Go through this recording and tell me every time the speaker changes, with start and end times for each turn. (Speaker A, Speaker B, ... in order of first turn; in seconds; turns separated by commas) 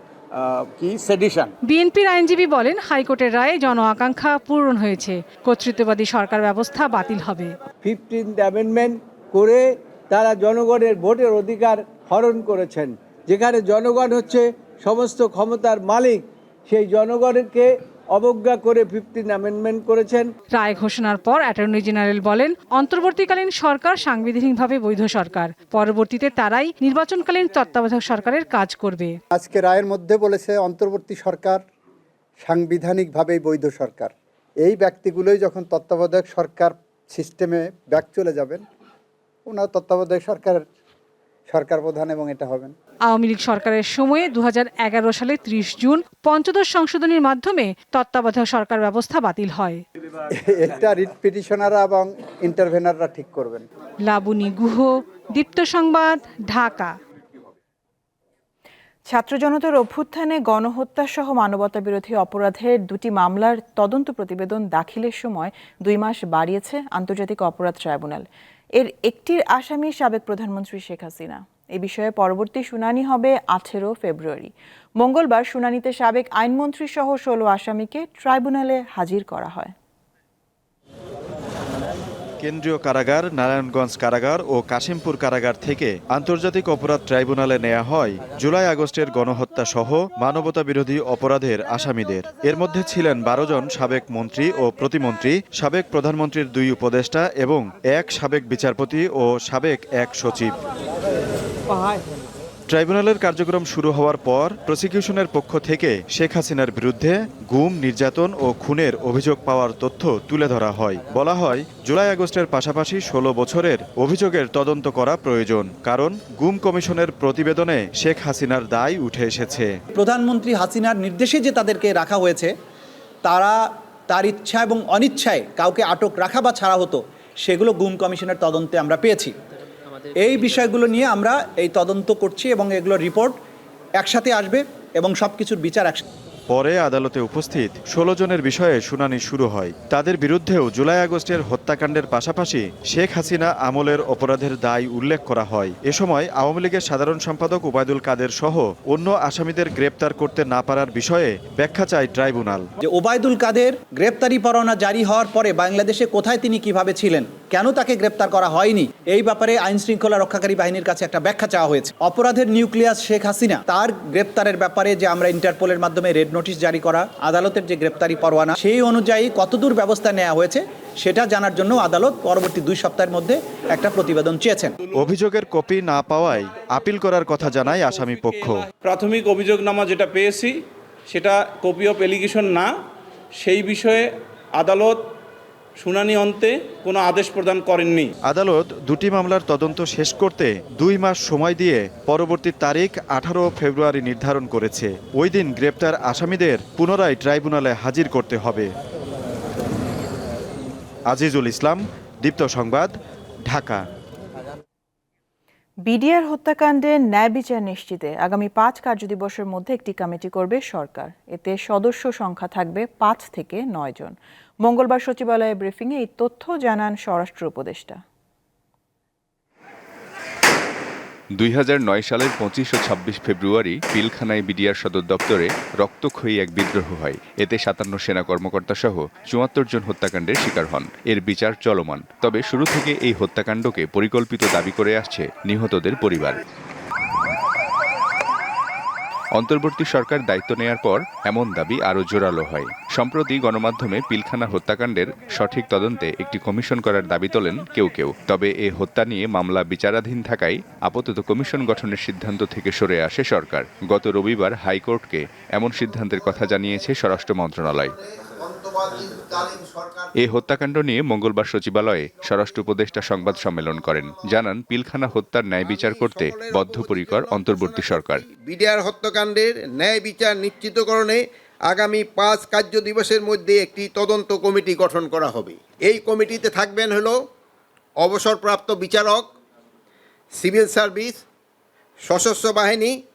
Speaker A: 0.3-1.5, Speaker B: 1.7-7.5, Speaker A: 7.8-20.3, Speaker B: 20.5-29.2, Speaker C: 29.3-31.6, Speaker C: 32.4-38.6, Speaker C: 39.5-40.6, Speaker C: 41.5-42.7, Speaker B: 43.1-49.8, Speaker C: 50.4-53.6, Speaker B: 54.1-56.9, Speaker D: 59.1-79.7, Speaker E: 82.4-100.6, Speaker A: 101.7-102.0, Speaker E: 102.7-119.7, Speaker F: 119.9-122.5, Speaker F: 123.2-129.3, Speaker F: 130.2-133.4, Speaker F: 134.0-136.0, Speaker E: 136.5-152.7, Speaker F: 152.8-174.7, Speaker E: 174.9-178.7, Speaker G: 178.9-180.4, Speaker G: 181.2-182.6, Speaker G: 183.5-183.9, Speaker G: 184.6-184.9, Speaker G: 185.8-188.0, Speaker E: 188.2-198.7, Speaker E: 201.1-202.9, Speaker E: 203.5-203.8, Speaker D: 205.8-218.0, Speaker H: 221.4-236.4, Speaker H: 239.3-257.9, Speaker I: 258.0-260.1, Speaker H: 260.2-268.2, Speaker I: 265.6-277.2, Speaker I: 278.0-279.3, Speaker I: 280.4-281.2, Speaker I: 282.1-282.9